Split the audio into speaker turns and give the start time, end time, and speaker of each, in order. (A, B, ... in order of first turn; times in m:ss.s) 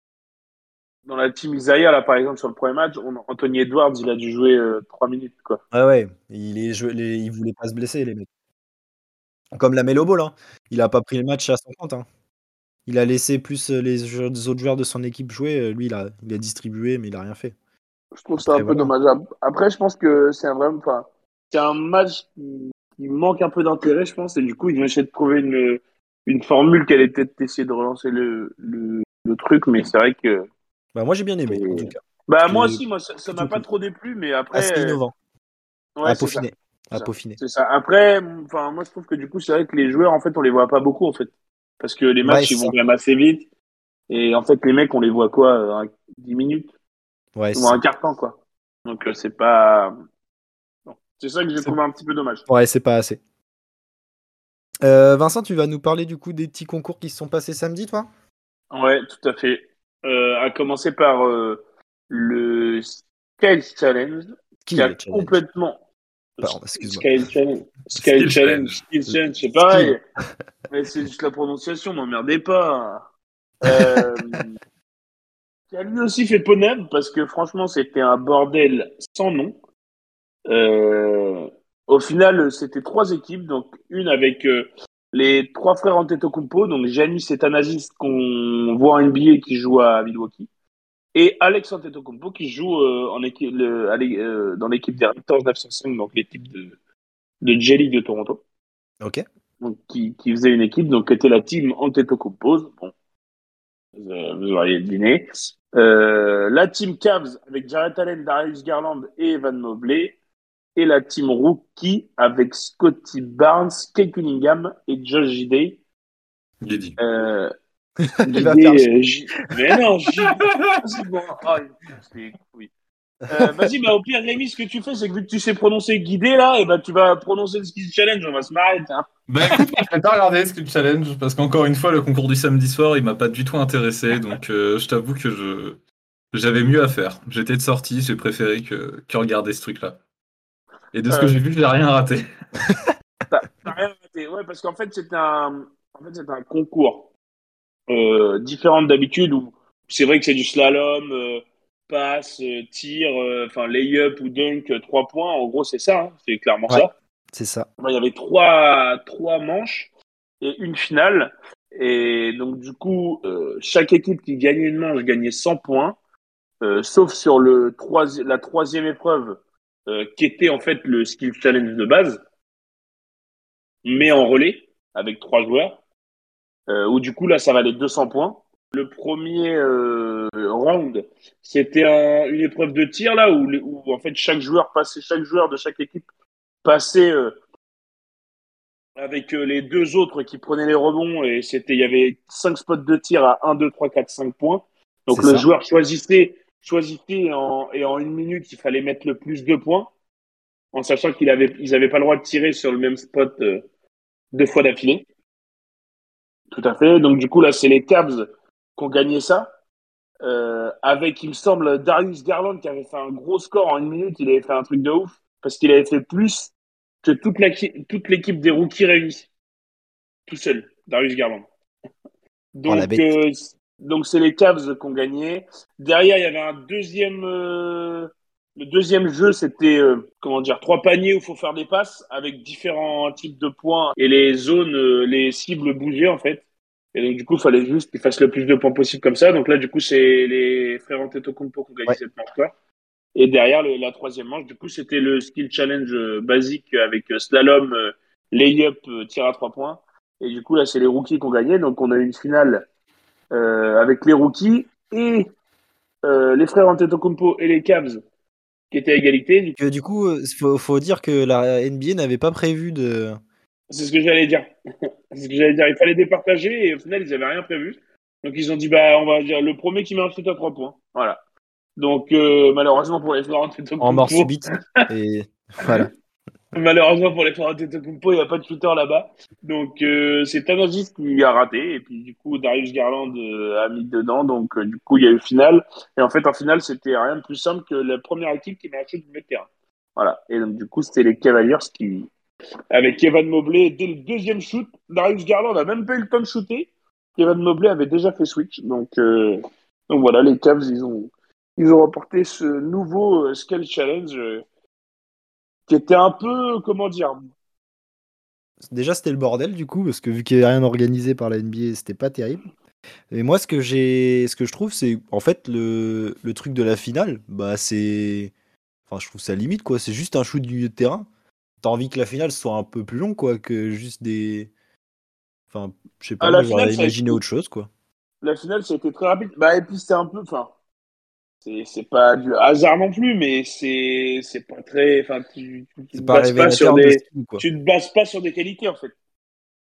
0:01.1-0:05.6 A
0:05.7-0:08.3 B
0:09.5-0:12.0 B
0:12.9-0:17.5 B
0:18.1-0:30.4 A
0:18.4-0:18.9 B
0:30.9-0:32.8 B
0:31.5-0:35.0 A
0:33.3-0:33.6 B
0:34.5-0:35.1 B
0:36.0-0:43.4 A
0:36.0-0:37.4 B
0:42.2-0:42.7 B
0:44.1-0:46.7 A
0:47.4-0:47.8 B
0:47.5-0:49.9 A
0:50.8-0:52.5 A
0:52.5-0:53.2 B
0:54.8-0:58.1 B
0:58.7-1:05.8 A
1:04.6-1:05.4 B
1:06.4-1:10.0 A
1:06.4-1:07.0 B
1:08.0-1:08.8 C
1:09.1-1:09.9 B
1:10.7-1:13.0 A
1:13.6-1:14.5 A
1:13.6-1:14.4 B
1:15.7-1:19.6 A
1:20.5-1:30.5 A
1:31.1-1:36.8 A
1:37.4-1:38.4 A
1:39.6-1:42.9 A
1:44.0-1:50.2 A
1:50.8-1:55.8 A
1:56.6-1:57.0 C
1:57.0-1:57.5 A
1:58.2-1:58.9 B
1:58.2-2:02.7 A
2:00.3-2:00.8 C
2:03.3-2:03.7 B
2:03.3-2:09.1 A
2:09.3-2:15.8 C
2:16.3-2:20.0 C
2:20.9-2:22.2 C
2:21.1-2:21.4 A
2:23.3-2:27.1 A
2:27.9-2:36.9 A
2:36.7-2:37.7 B
2:37.8-2:46.0 A
2:46.6-2:52.2 A
2:53.8-2:55.8 A
2:56.7-3:06.1 A
3:06.6-3:07.3 A
3:09.0-3:19.9 A
3:15.1-3:15.5 B
3:20.7-3:23.6 A
3:24.3-3:25.0 A
3:26.5-3:29.5 A
3:30.2-3:39.3 A
3:40.3-3:41.5 A
3:42.5-4:02.5 A
3:42.7-3:43.1 B
4:03.1-4:12.6 A
4:13.3-4:15.3 A
4:16.0-4:18.0 A
4:18.7-4:19.6 A
4:19.6-4:23.2 B
4:23.7-4:24.4 A
4:25.1-4:31.2 A
4:31.8-4:34.8 A
4:33.8-4:35.9 B
4:36.5-4:52.1 A
4:52.7-5:04.4 A
5:05.7-5:07.3 A
5:08.7-5:12.4 B
5:13.1-5:18.3 B
5:18.9-5:21.0 B
5:21.6-5:24.5 B
5:25.5-5:27.7 B
5:26.2-5:27.2 A
5:28.2-5:30.5 A
5:31.4-5:38.9 A
5:35.9-5:37.4 B